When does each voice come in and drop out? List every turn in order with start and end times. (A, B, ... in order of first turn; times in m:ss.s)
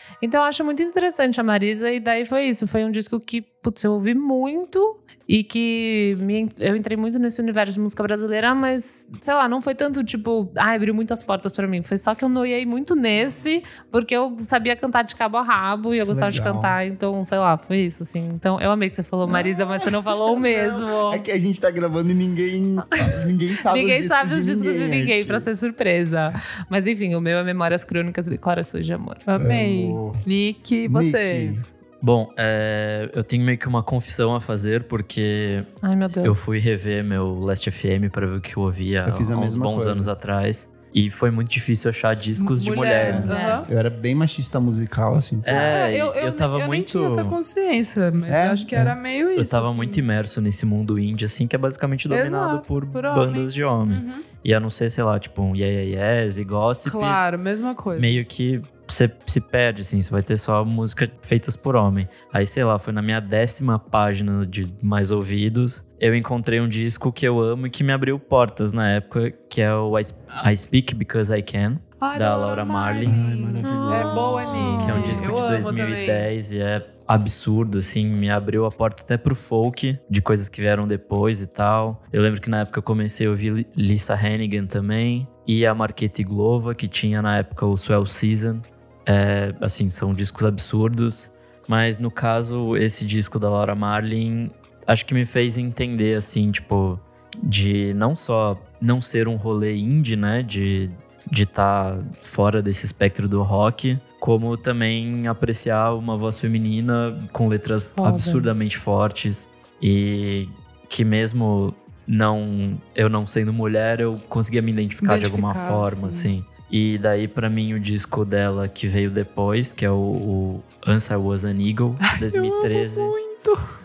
0:00.2-0:21.2 A
0:16.1-0:16.8 B
0:19.3-0:25.5 B
0:23.6-0:29.2 A
0:29.3-0:31.6 C
0:29.4-0:30.2 B
0:30.8-0:31.7 B
0:32.0-0:35.7 D
0:35.8-0:36.4 A
0:36.2-0:43.6 D
0:39.0-0:40.1 B
0:42.4-0:43.7 C
0:43.0-0:45.8 B
0:43.1-0:43.6 A
0:45.4-0:47.4 D
0:45.4-0:50.0 C
0:48.3-0:49.0 B
0:49.4-0:57.2 D
0:52.1-0:54.2 C
0:56.8-0:58.2 C
0:57.9-1:13.2 D
1:12.0-1:16.3 C
1:13.0-1:15.6 B
1:13.6-1:14.3 A
1:14.4-2:03.1 D
1:48.0-1:48.5 A
1:55.0-1:56.3 C
2:02.0-2:03.6 C